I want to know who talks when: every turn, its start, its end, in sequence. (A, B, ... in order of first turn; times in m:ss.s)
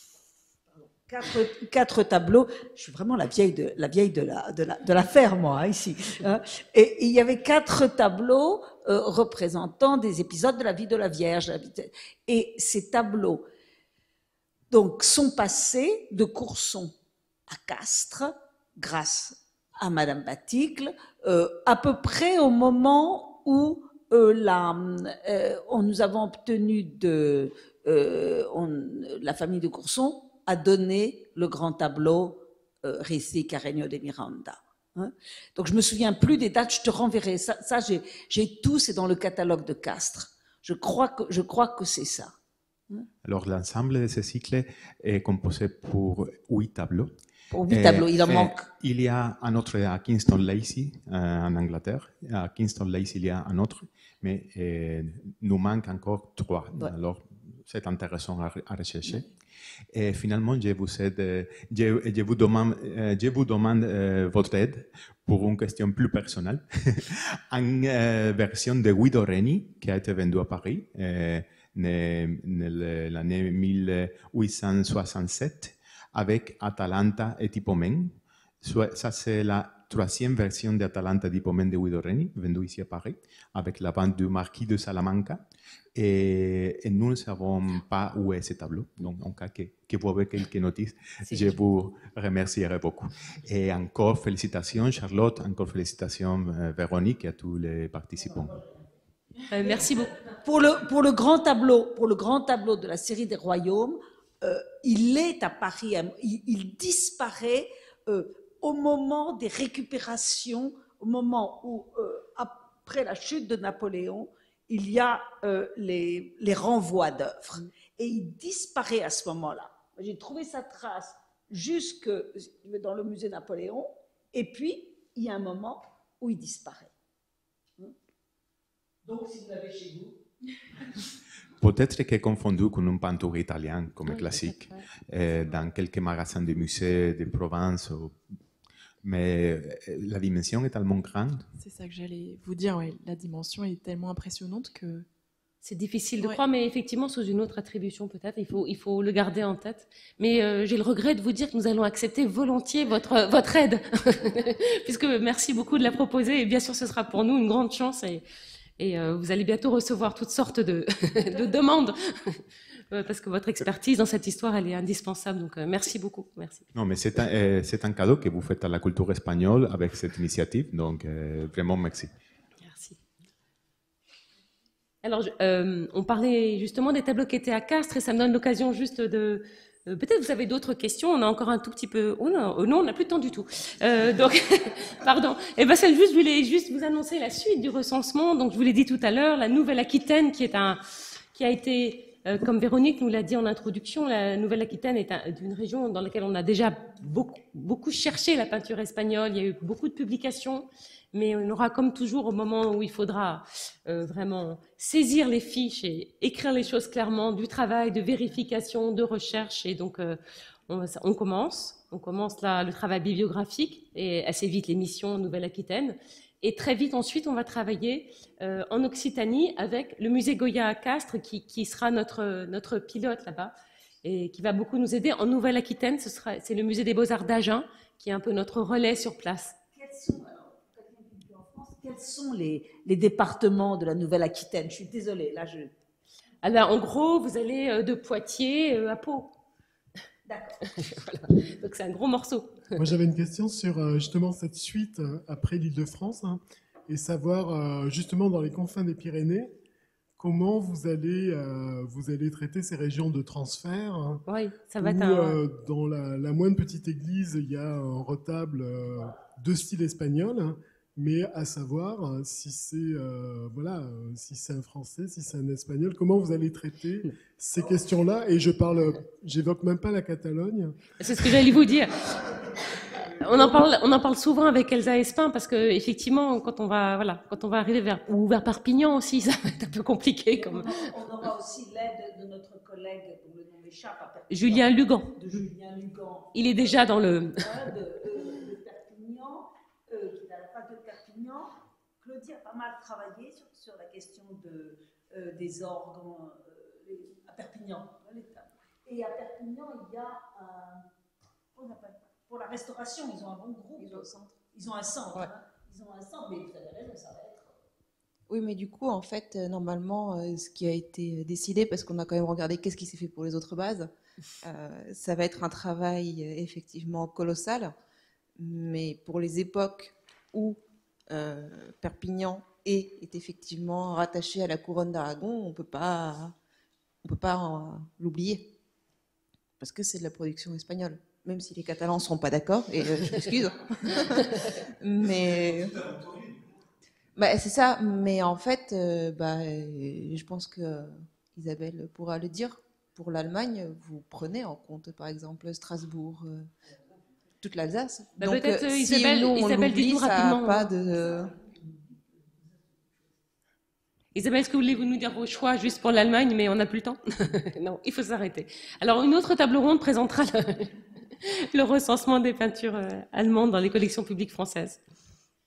0:00.7-0:13.4 A
0:14.7-0:16.9 A
0:17.5-0:42.3 A
0:43.2-0:47.1 B
0:47.5-0:48.7 A
0:47.7-0:59.3 B
0:59.9-1:25.4 B
1:25.9-1:38.6 B
1:39.5-1:40.2 C
1:40.3-2:06.9 A
2:09.0-2:10.2 A
2:11.6-2:18.2 B
2:14.0-2:14.9 C
2:19.0-2:21.4 B
2:21.6-2:25.1 D
2:25.6-2:38.2 C
2:38.8-2:46.6 C
2:46.7-2:52.1 B
2:52.6-2:53.0 C
2:55.0-3:10.8 C
3:11.3-3:49.6 C
3:49.7-3:55.7 A
3:56.4-3:59.3 C
4:00.2-4:00.7 A
4:00.7-4:02.8 C
4:02.8-4:09.5 E
4:10.2-4:14.2 E
4:14.3-4:15.4 C
4:14.8-4:31.4 E
4:31.0-4:40.8 C
4:40.4-5:00.9 A
4:44.3-4:45.2 C
4:46.3-4:47.5 C
5:01.5-5:07.5 A
5:03.8-5:04.4 F
5:08.3-5:13.9 F
5:14.4-5:17.7 F
5:18.4-5:20.6 F
5:21.1-5:26.3 F
5:27.0-5:28.4 F
5:29.6-5:35.9 F
5:37.2-5:46.5 F
5:47.4-5:51.3 F
5:48.2-5:50.7 C
5:54.1-6:04.8 C